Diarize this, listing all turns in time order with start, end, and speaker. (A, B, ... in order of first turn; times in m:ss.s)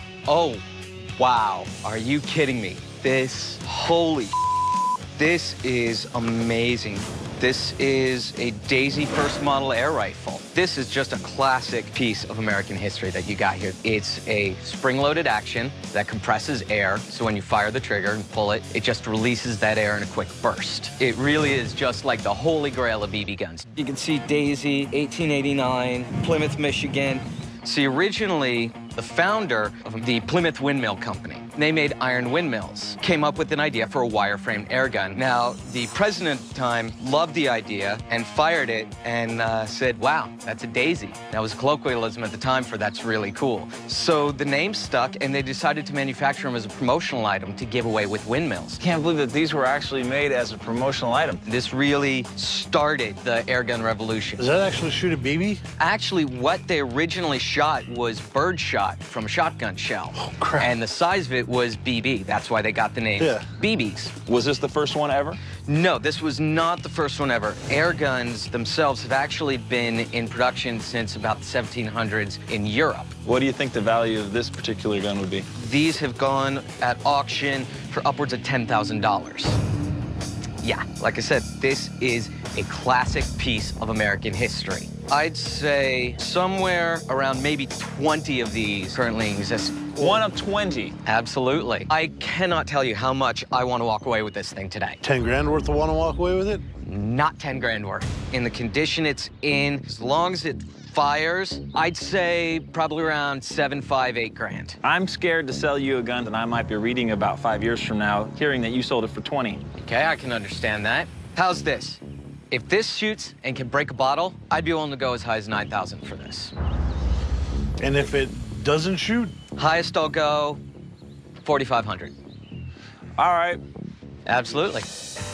0:00.3-0:00.6 A
0:01.2-0:04.3 A
0:05.2-0:48.8 A
0:48.8-0:51.4 B
0:51.5-0:54.4 A
0:54.4-0:55.6 C
0:55.8-1:04.1 A
1:00.2-1:00.7 C
1:04.2-1:05.4 B
1:05.7-1:13.1 A
1:13.2-1:15.5 B
1:15.6-1:19.6 A
1:20.6-1:30.2 A
1:30.0-1:31.0 B
1:31.0-1:35.0 A
1:35.0-1:36.6 C
1:36.8-1:44.8 A
1:44.8-1:49.6 B
1:49.8-1:52.0 A
1:52.5-1:56.5 A
1:57.8-1:59.4 C
1:59.6-2:00.6 A
2:01.4-2:02.1 A
2:03.2-2:03.6 B
2:04.3-2:04.9 A